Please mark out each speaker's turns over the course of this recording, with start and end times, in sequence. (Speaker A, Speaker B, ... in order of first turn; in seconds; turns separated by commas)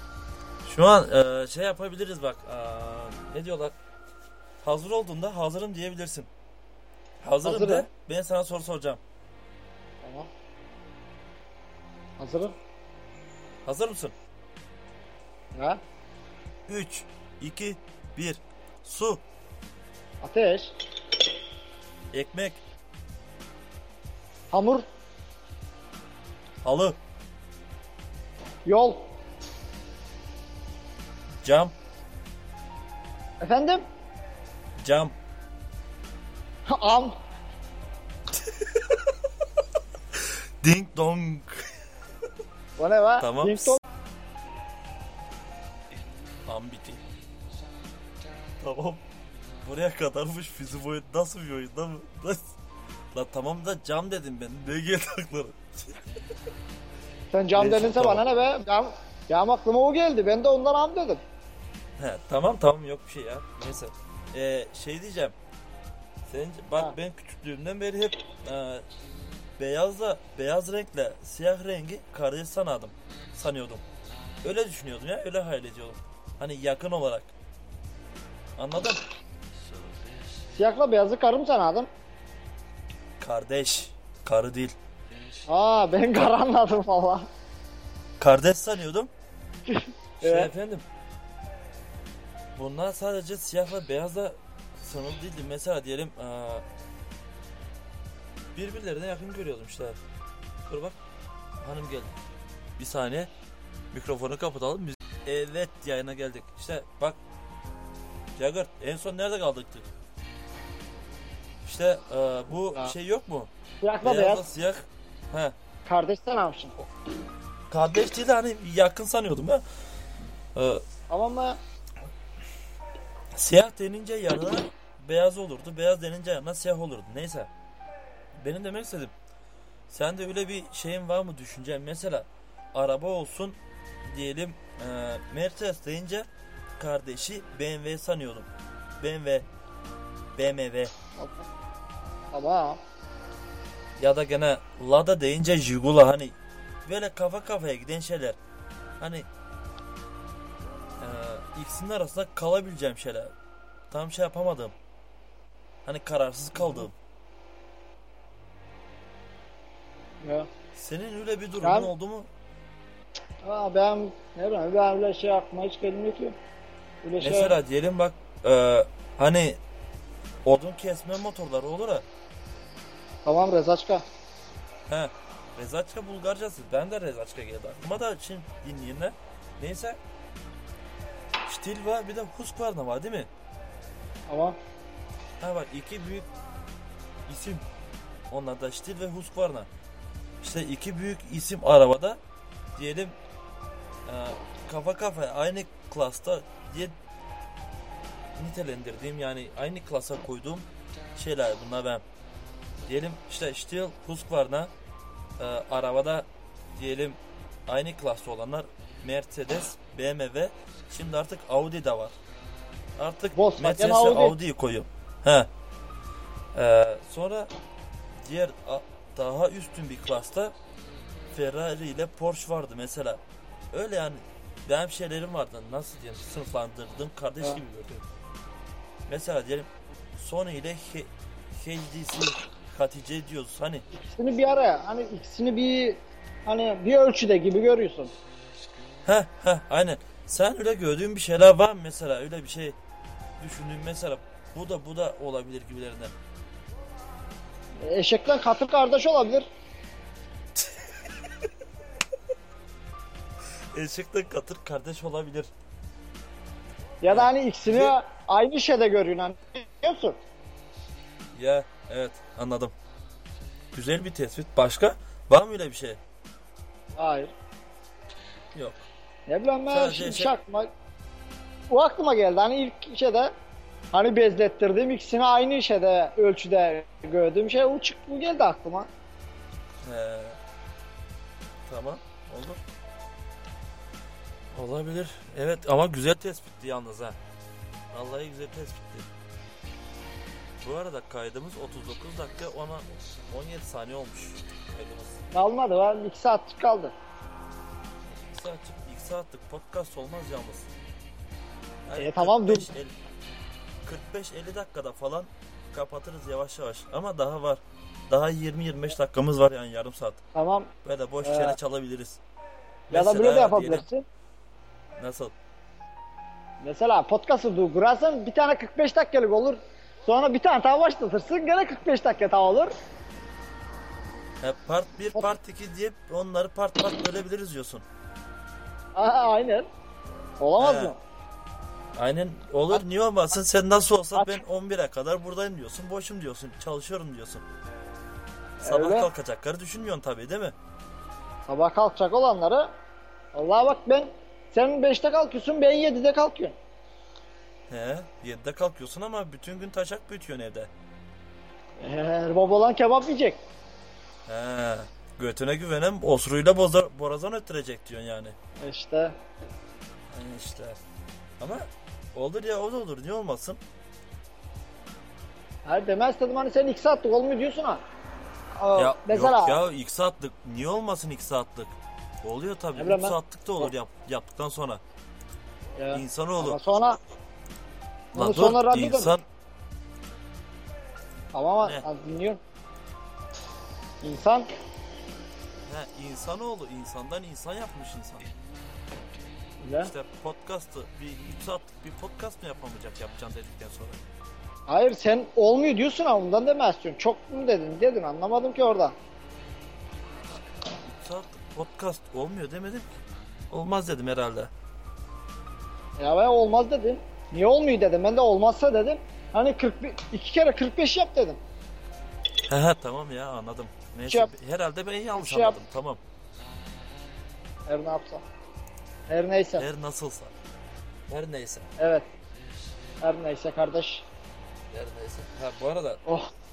Speaker A: 0.6-3.7, Speaker A: 4.6-6.3, Speaker A: 7.2-9.0, Speaker B: 7.4-7.9, Speaker B: 10.0-10.3, Speaker B: 12.2-12.6, Speaker A: 13.6-14.1, Speaker B: 15.5-15.8, Speaker A: 16.7-19.2, Speaker B: 20.2-20.8, Speaker A: 22.1-22.6, Speaker B: 24.5-24.9, Speaker A: 26.6-27.0, Speaker B: 28.6-29.1, Speaker A: 31.4-31.7, Speaker B: 33.4-33.8, Speaker A: 34.8-35.1, Speaker B: 36.6-37.1, Speaker A: 38.5-38.8, Speaker A: 40.2-41.7, Speaker B: 42.8-43.8, Speaker A: 43.2-43.8, Speaker A: 46.5-47.0, Speaker A: 48.6-49.0, Speaker A: 49.6-52.5, Speaker A: 53.1-56.0, Speaker B: 57.3-61.2, Speaker A: 57.5-58.2, Speaker A: 62.0-65.3, Speaker A: 66.3-68.8, Speaker A: 69.6-73.8, Speaker A: 74.4-77.3, Speaker A: 78.6-79.0, Speaker B: 80.5-81.9, Speaker A: 83.2-84.7, Speaker B: 85.5-87.3, Speaker A: 88.2-89.1, Speaker B: 89.7-90.5, Speaker A: 90.2-90.8, Speaker A: 92.5-96.6, Speaker A: 98.5-100.0, Speaker A: 100.7-101.0, Speaker A: 101.6-102.2, Speaker A: 102.8-103.3, Speaker A: 103.9-107.2, Speaker A: 108.4-109.9, Speaker A: 111.6-113.5, Speaker B: 113.8-114.4, Speaker A: 114.0-115.5, Speaker B: 115.8-116.7, Speaker A: 117.7-119.6, Speaker A: 120.5-120.8, Speaker B: 121.1-121.6, Speaker A: 123.3-127.5, Speaker A: 128.4-129.1, Speaker A: 129.9-136.3, Speaker A: 136.8-138.5, Speaker A: 139.0-139.5, Speaker A: 140.3-140.9, Speaker B: 141.2-141.5, Speaker B: 142.3-142.8, Speaker A: 144.0-148.4, Speaker A: 149.0-149.3, Speaker A: 151.0-153.3, Speaker A: 153.9-154.7, Speaker A: 155.8-156.9, Speaker B: 160.2-160.5, Speaker A: 160.7-162.3, Speaker B: 161.6-161.9, Speaker B: 163.4-166.4, Speaker B: 167.0-167.6, Speaker A: 167.2-169.6, Speaker A: 170.4-172.0, Speaker B: 173.2-174.0, Speaker A: 174.9-180.0, Speaker A: 181.4-183.3, Speaker B: 184.3-184.6, Speaker A: 185.4-186.3, Speaker A: 187.3-187.6, Speaker A: 188.3-189.7, Speaker A: 190.4-192.2, Speaker A: 192.8-193.2, Speaker A: 194.1-196.9, Speaker A: 198.3-202.0, Speaker A: 202.9-204.7, Speaker A: 205.4-212.2, Speaker A: 213.0-215.5, Speaker B: 213.3-214.3, Speaker A: 216.5-217.5, Speaker A: 218.2-220.5, Speaker A: 221.3-223.2, Speaker A: 223.7-228.0, Speaker A: 229.1-233.8, Speaker B: 233.9-238.1, Speaker A: 239.0-242.8, Speaker A: 243.4-246.1, Speaker B: 247.8-249.5, Speaker A: 253.7-255.5, Speaker B: 257.0-260.2, Speaker A: 257.1-257.9, Speaker A: 261.3-262.7, Speaker A: 263.7-266.0, Speaker B: 266.9-267.3, Speaker A: 268.5-268.9, Speaker B: 269.3-270.7, Speaker A: 269.7-270.3, Speaker B: 271.7-273.3, Speaker B: 273.9-278.9, Speaker A: 279.8-280.4, Speaker A: 281.6-282.6, Speaker A: 284.5-287.2, Speaker A: 287.9-289.1, Speaker A: 290.6-295.2, Speaker B: 295.3-296.9, Speaker A: 298.0-300.7, Speaker A: 301.8-302.9, Speaker B: 301.9-302.7, Speaker A: 303.8-310.2, Speaker B: 310.3-310.7, Speaker A: 310.8-312.2, Speaker B: 311.2-311.6, Speaker A: 312.9-313.9, Speaker B: 312.9-314.1, Speaker A: 315.0-315.3, Speaker B: 316.6-322.7, Speaker A: 324.4-327.8, Speaker B: 328.9-329.7, Speaker B: 330.4-331.0, Speaker A: 330.6-330.9, Speaker A: 331.9-337.4, Speaker B: 334.1-334.4, Speaker B: 338.6-339.1, Speaker A: 338.6-340.5, Speaker B: 341.4-342.7, Speaker B: 343.3-346.6, Speaker A: 347.7-350.7, Speaker B: 351.8-353.4, Speaker A: 354.3-358.3, Speaker B: 358.6-359.1, Speaker A: 360.1-360.8, Speaker A: 361.4-363.6, Speaker B: 365.6-367.8, Speaker B: 368.6-369.6, Speaker A: 368.8-374.8, Speaker B: 372.8-373.7, Speaker B: 375.8-377.0, Speaker A: 375.9-376.6, Speaker B: 378.1-379.1, Speaker A: 378.1-379.2, Speaker B: 381.3-382.4, Speaker B: 384.0-384.5, Speaker A: 385.7-388.3, Speaker B: 389.6-389.9, Speaker A: 389.8-394.0, Speaker B: 394.7-398.9, Speaker A: 400.8-402.9, Speaker A: 403.5-404.5, Speaker B: 406.0-411.4, Speaker A: 412.5-416.0, Speaker B: 414.1-414.3, Speaker B: 415.2-415.6, Speaker B: 417.7-418.2, Speaker B: 419.1-419.6, Speaker A: 419.6-420.3, Speaker A: 421.1-421.7, Speaker B: 421.8-422.1, Speaker B: 423.0-424.0, Speaker A: 424.7-426.0, Speaker B: 426.1-426.3